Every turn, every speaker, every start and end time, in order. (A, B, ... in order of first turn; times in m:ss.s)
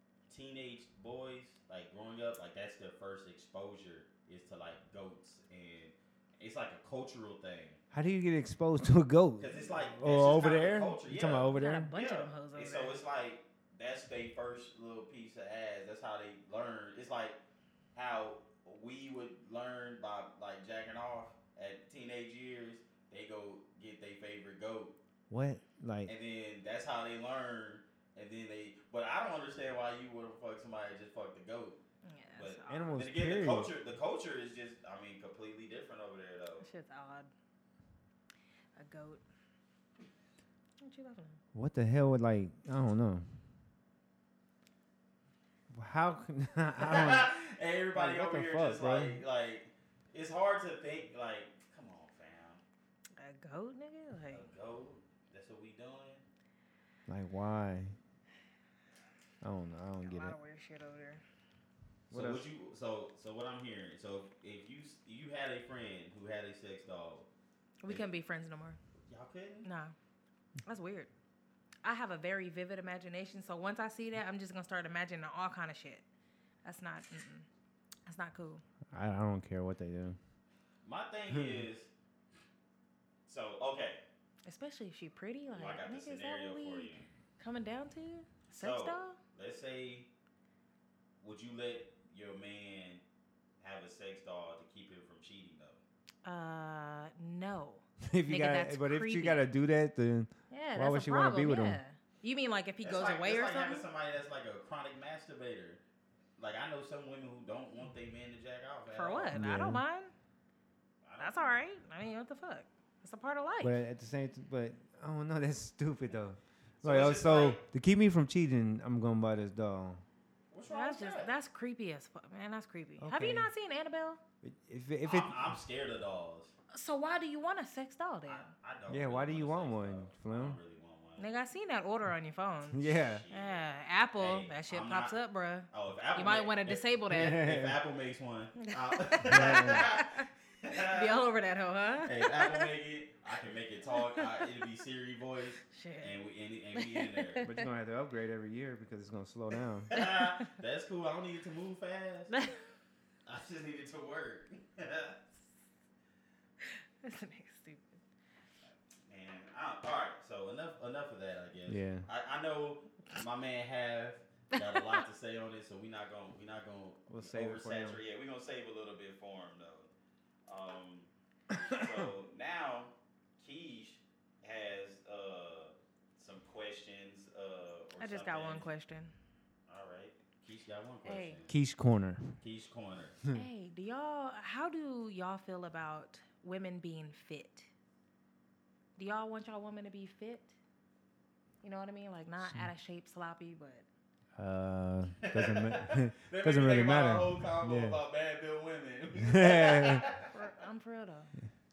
0:00.3-0:07.8 A
0:07.9-0:11.9 B
0:09.4-0:17.4 A
0:11.5-0:13.0 C
0:18.0-0:25.0 A
0:25.3-0:26.1 B
0:26.1-0:31.8 A
0:32.0-0:32.9 C
0:32.4-0:36.7 A
0:32.7-0:33.7 B
0:36.6-0:37.3 C
0:38.8-0:39.2 C
0:40.8-0:41.4 C
0:41.5-0:43.3 B
0:45.7-0:47.3 B
0:46.8-0:52.6 A
0:48.0-0:49.2 B
0:53.2-0:54.5 C
0:54.3-0:56.2 A
0:57.1-0:58.0 B
0:59.4-1:00.4 B
1:00.0-1:01.2 C
1:02.1-1:07.3 A
1:02.1-1:02.5 B
1:07.8-1:08.8 C
1:09.1-1:09.7 A
1:09.6-1:10.0 C
1:10.7-1:11.1 C
1:11.8-1:16.0 C
1:16.6-1:17.5 C
1:18.1-1:18.6 C
1:18.9-1:20.2 B
1:20.8-1:21.9 A
1:21.3-1:21.6 B
1:23.3-1:24.0 A
1:24.4-1:29.2 C
1:25.5-1:27.1 A
1:28.6-1:30.1 A
1:31.2-1:33.0 A
1:33.6-1:35.8 A
1:36.2-1:39.4 C
1:38.0-1:41.8 B
1:40.5-1:43.8 C
1:42.8-1:45.8 A
1:46.4-1:49.4 A
1:48.9-1:50.1 C
1:49.3-1:49.8 B
1:51.0-1:51.6 A
1:51.2-1:53.8 C
1:53.6-2:00.0 B
1:56.8-1:57.6 A
2:00.5-2:01.3 A
2:00.7-2:04.2 C
2:03.0-2:03.5 B
2:04.4-2:05.6 B
2:05.0-2:06.5 A
2:06.7-2:08.5 C
2:08.3-2:11.3 A
2:08.9-2:10.6 B
2:11.2-2:17.5 C
2:12.7-2:13.2 B
2:12.9-2:13.7 A
2:14.2-2:15.2 A
2:15.7-2:21.2 A
2:17.1-2:17.8 B
2:18.6-2:22.7 C
2:19.3-2:19.9 B
2:22.0-2:27.5 A
2:24.0-2:24.4 C
2:25.7-2:26.2 C
2:26.8-2:27.7 C
2:27.4-2:29.9 B
2:29.9-2:32.4 A
2:33.3-2:35.2 A
2:36.6-2:38.0 C
2:39.1-2:49.9 A
2:41.7-2:42.1 B
2:44.6-2:44.9 C
2:47.1-2:48.0 B
2:50.5-2:58.7 A
2:58.0-2:59.1 C
2:59.7-3:01.6 A
3:01.0-3:01.4 C
3:01.5-3:02.4 B
3:02.4-3:03.2 A
3:03.3-3:07.7 C
3:09.0-3:10.5 C
3:11.6-3:13.8 C
3:14.4-3:18.0 B
3:15.2-3:20.3 A
3:19.2-3:20.0 B
3:20.3-3:21.3 C